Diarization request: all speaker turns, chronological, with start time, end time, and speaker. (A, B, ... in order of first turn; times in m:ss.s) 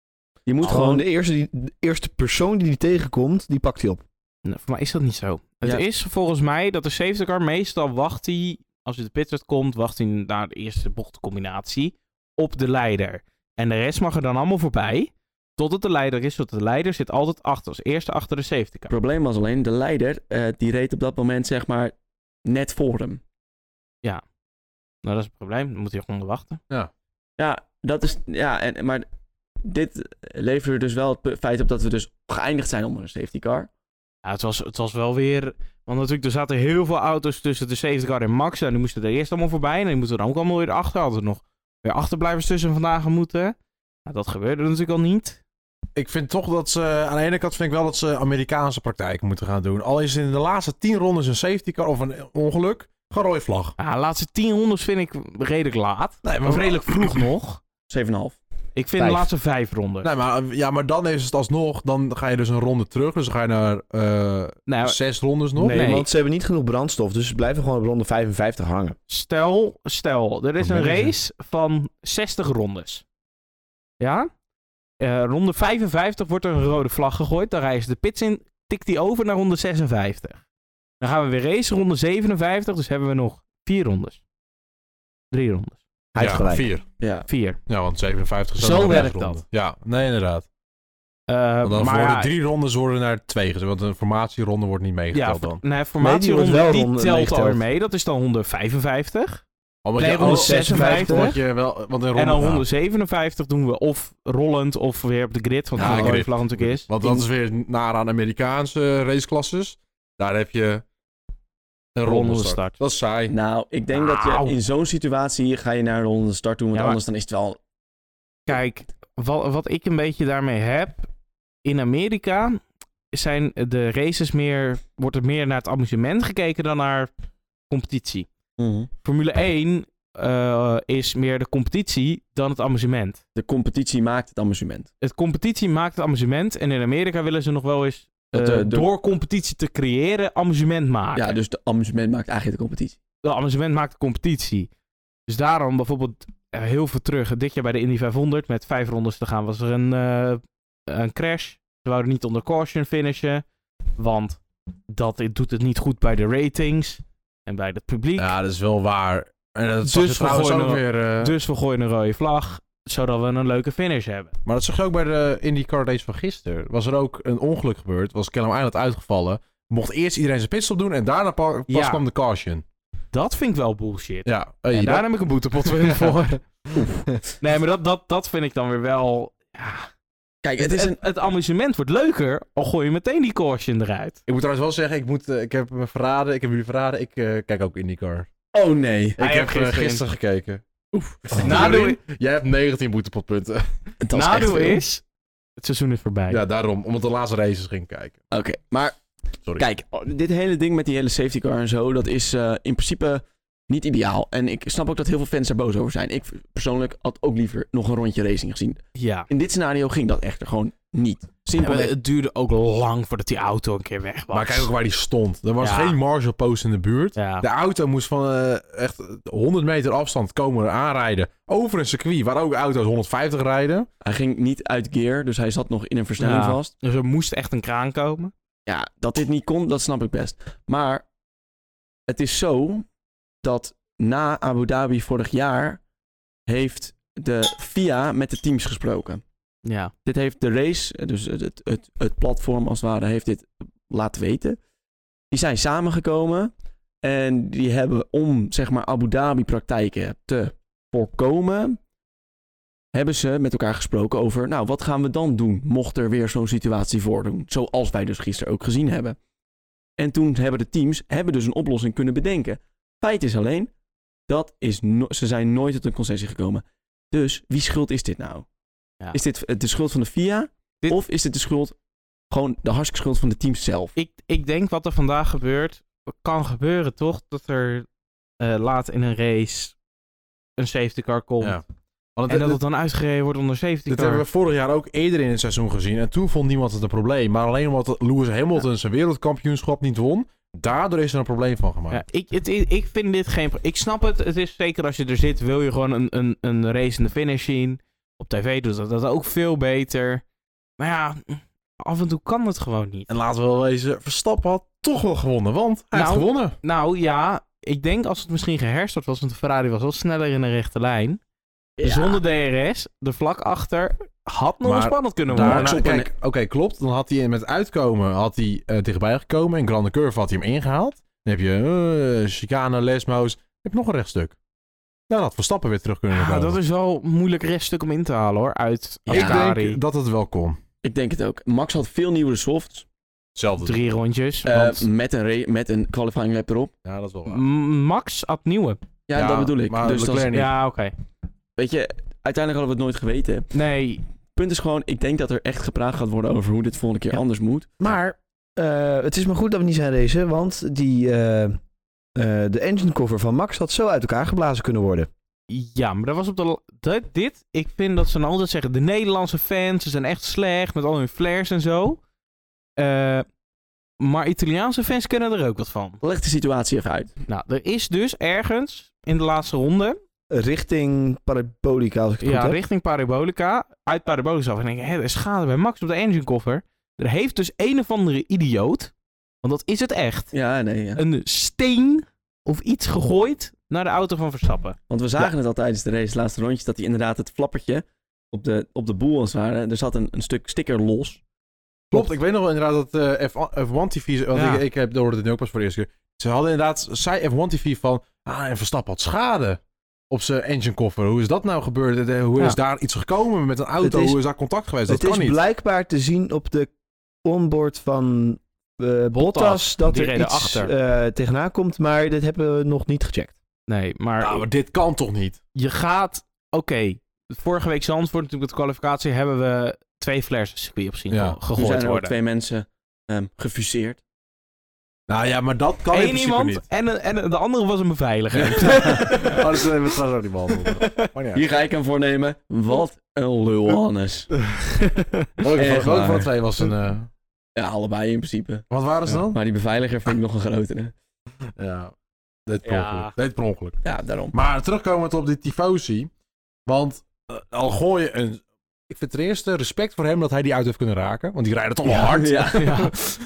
0:00.4-0:01.0 A
0:00.6-0:04.0 B
0:04.4-0:18.9 C
0:18.9-0:21.9 A
0:22.4-0:23.2 A
0:25.0-0:26.6 C
0:27.4-0:29.0 A
0:29.6-0:33.7 A
0:34.2-0:45.4 C
0:46.0-0:53.7 D
0:53.8-0:57.6 C
0:56.2-0:57.3 D
0:57.9-0:58.4 A
0:58.8-1:00.1 C
0:59.0-0:59.3 B
1:00.0-1:05.9 D
1:04.7-1:05.0 C
1:05.6-1:06.1 C
1:05.6-1:09.0 B
1:09.1-1:13.0 C
1:10.6-1:11.1 D
1:14.0-1:14.3 C
1:15.0-1:20.4 C
1:21.0-1:24.2 C
1:25.3-1:25.8 C
1:26.1-1:26.7 B
1:26.2-1:26.8 D
1:27.0-1:27.2 A
1:27.3-1:27.6 C
1:27.7-1:30.4 D
1:28.6-1:29.1 B
1:28.6-1:29.4 C
1:31.3-1:32.3 C
1:31.6-1:35.6 D
1:35.1-1:39.4 C
1:36.0-1:37.6 B
1:39.8-1:42.6 D
1:40.0-1:41.4 C
1:40.0-1:41.3 B
1:42.1-1:46.9 C
1:45.8-1:46.2 A
1:45.8-1:50.8 D
1:51.9-1:53.3 D
1:52.0-1:52.8 C
1:53.3-1:57.6 A
1:53.9-1:54.5 C
1:56.7-1:57.0 C
1:58.5-2:01.1 C
2:01.6-2:02.6 C
2:03.1-2:07.1 C
2:07.7-2:08.3 C
2:08.6-2:08.9 A
2:09.0-2:13.2 C
2:13.4-2:14.9 A
2:15.0-2:21.4 C
2:18.3-2:18.9 A
2:21.1-2:23.0 A
2:23.2-2:24.7 C
2:25.3-2:33.4 C
2:34.0-2:38.3 C
2:38.2-2:41.3 D
2:39.8-2:44.3 C
2:44.4-2:52.6 D
2:51.7-2:52.0 C
2:53.1-2:56.4 C
2:54.2-2:55.0 D
2:55.6-2:56.3 D
2:56.7-2:57.0 A
2:57.4-2:59.9 C
3:00.4-3:01.0 A
3:00.6-3:04.2 C
3:04.3-3:08.3 D
3:08.5-3:09.2 A
3:09.2-3:10.6 D
3:09.2-3:10.0 C
3:10.9-3:11.8 A
3:11.3-3:13.7 D
3:11.4-3:12.0 C
3:14.0-3:14.8 A
3:14.1-3:15.0 C
3:15.6-3:16.4 C
3:16.3-3:18.2 D
3:18.3-3:19.0 A
3:19.6-3:31.9 A
3:29.0-3:29.3 C
3:31.6-3:34.7 C
3:34.3-3:43.9 D
3:35.6-3:36.0 C
3:37.2-3:37.4 C
3:44.0-3:46.7 A
3:46.2-3:48.3 C
3:48.7-3:51.0 A
3:52.1-3:52.8 A
3:53.4-3:55.8 A
3:56.5-3:59.2 A
3:59.6-3:59.9 C
4:00.0-4:04.6 A
4:05.3-4:06.5 A
4:07.0-4:11.8 A
4:12.9-4:19.2 A
4:20.0-4:23.7 A
4:24.3-4:28.4 A
4:29.1-4:31.7 A
4:32.3-4:34.0 A
4:34.0-4:37.9 C
4:38.4-4:39.7 C
4:40.6-4:41.6 C
4:42.2-4:42.6 D
4:42.3-4:44.2 C
4:43.9-4:52.0 D
4:51.9-5:00.2 C
5:00.8-5:03.1 C
5:03.1-5:06.6 D
5:05.9-5:11.2 C
5:11.8-5:12.2 A
5:11.8-5:15.8 C
5:14.6-5:24.4 D
5:15.4-5:16.1 A
5:25.1-5:26.6 D
5:26.1-5:29.8 C
5:29.1-5:29.4 A
5:29.1-5:30.6 D
5:30.8-5:32.8 A
5:33.3-5:33.8 D
5:33.6-5:34.8 C
5:34.4-5:36.7 A
5:36.8-5:37.4 D
5:37.3-5:38.8 C
5:39.1-5:40.3 A
5:39.1-5:40.5 D
5:40.3-5:40.9 C
5:41.6-5:43.5 A
5:43.5-5:44.0 C
5:44.4-5:47.8 A
5:47.8-5:51.6 B
5:52.2-5:55.1 B
5:55.5-6:02.0 C
6:02.8-6:03.2 C
6:04.0-6:06.0 C
6:06.0-6:07.1 A
6:07.3-6:10.0 C
6:10.3-6:12.6 B
6:12.2-6:18.9 C
6:19.4-6:20.3 C
6:20.3-6:21.0 A
6:21.0-6:24.8 C
6:24.9-6:31.2 A
6:31.9-6:45.4 D
6:34.3-6:34.6 C
6:43.8-6:44.2 B
6:44.9-6:46.7 B
6:47.2-6:53.3 B
6:49.1-6:50.7 C
6:53.7-6:54.4 C
6:54.2-6:55.4 D
6:55.5-7:02.1 C
7:01.1-7:01.4 D
7:01.5-7:04.0 A
7:05.1-7:06.6 D
7:05.9-7:09.7 C
7:08.4-7:11.4 D
7:11.3-7:14.3 A
7:15.4-7:17.1 D
7:15.6-7:16.3 A
7:17.6-7:18.7 A
7:18.7-7:19.4 D
7:19.2-7:20.9 A
7:21.6-7:21.9 D
7:22.4-7:23.8 D
7:22.6-7:23.1 C
7:23.8-7:24.3 A
7:24.3-7:26.1 D
7:26.6-7:32.9 D
7:31.8-7:32.8 A
7:32.5-7:33.0 C